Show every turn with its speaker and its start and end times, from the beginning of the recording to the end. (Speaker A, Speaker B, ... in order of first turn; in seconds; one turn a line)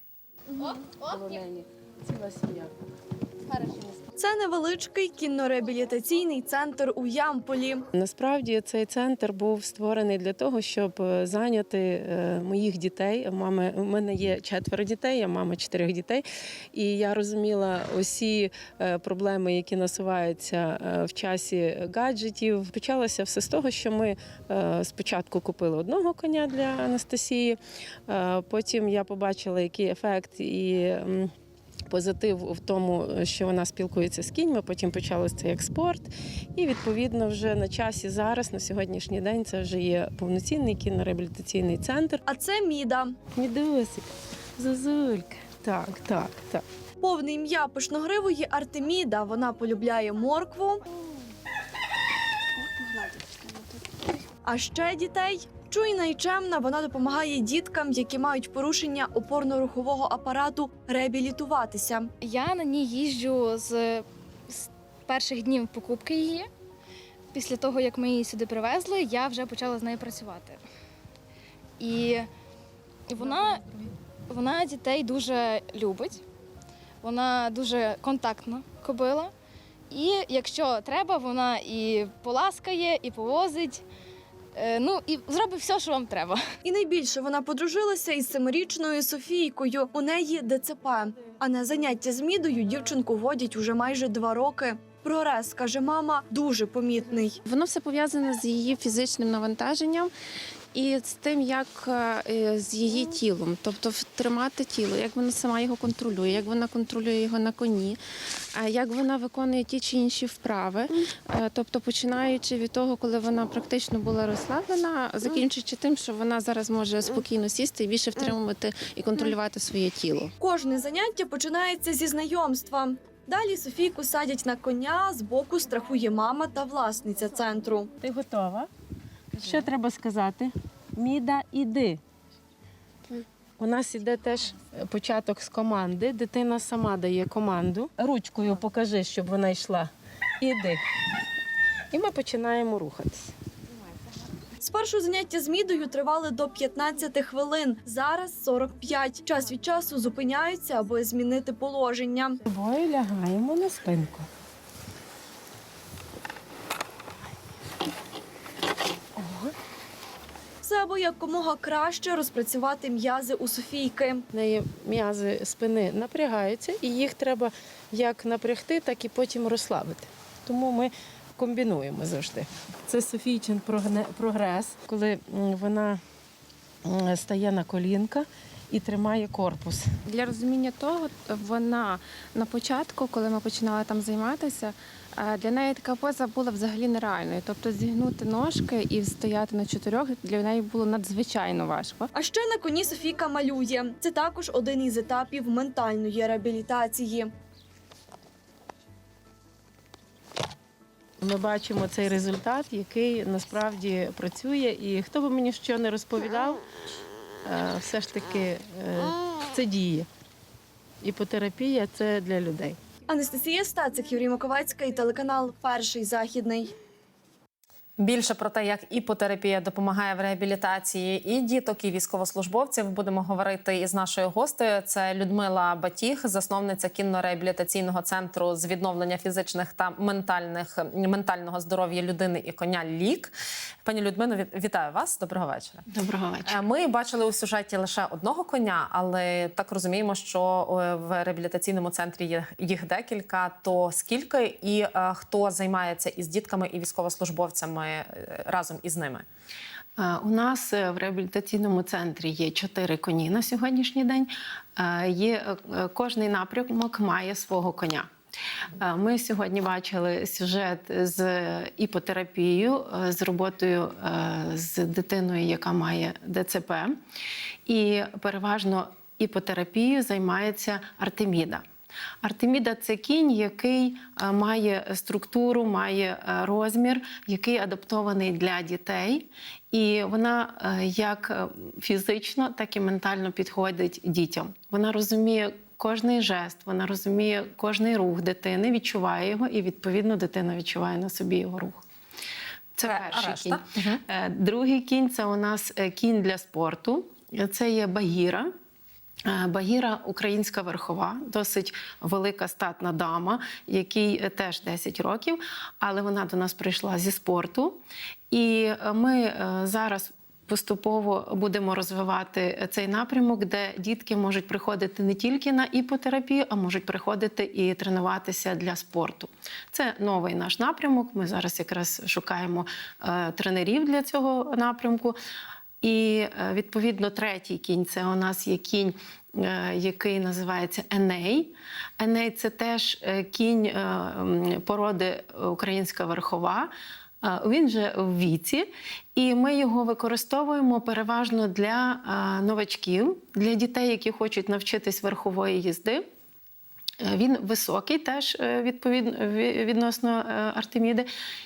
Speaker A: 0.9-2.7
Speaker A: 3.5-3.9
Speaker B: 4.2-7.8
Speaker A: 7.9-31.3
Speaker A: 31.9-42.2
Speaker B: 42.3-43.2
Speaker A: 43.4-44.1
Speaker A: 44.6-46.6
Speaker B: 47.0-50.8
Speaker A: 52.9-53.4
Speaker B: 54.4-62.1
Speaker C: 62.2-66.5
Speaker C: 67.3-70.6
Speaker C: 71.8-72.3
Speaker C: 73.1-73.7
Speaker C: 74.3-76.2
Speaker C: 77.0-79.3
Speaker C: 79.9-83.8
Speaker C: 84.5-86.4
Speaker B: 86.6-97.4
Speaker D: 97.5-100.1
Speaker D: 100.7-108.0
Speaker D: 108.5-120.3
Speaker B: 120.4-127.9
Speaker A: 128.0-128.7
Speaker A: 129.3-132.0
Speaker A: 133.6-140.8
Speaker A: 141.9-143.3
Speaker B: 144.6-152.4
Speaker A: 152.4-154.3
Speaker A: 159.2-159.5
Speaker B: 160.6-164.2
Speaker A: 164.3-176.0
Speaker A: 176.8-179.9
Speaker D: 180.1-192.1
Speaker B: 192.1-197.3
Speaker A: 201.2-206.6
Speaker A: 207.4-210.1
Speaker A: 211.0-212.8
Speaker B: 213.1-216.8
Speaker E: 218.0-233.3
Speaker E: 233.8-235.8
Speaker A: 235.9-236.6
Speaker E: 236.5-249.2
Speaker A: 250.0-258.1
Speaker A: 258.8-266.9
Speaker A: 267.7-271.6
Speaker A: 272.2-291.8
Speaker A: 292.8-298.5
Speaker E: 292.8-294.0
Speaker A: 299.2-307.8
Speaker A: 308.3-325.2
Speaker A: 325.8-336.7
Speaker A: 337.2-346.0
Speaker A: 347.0-351.1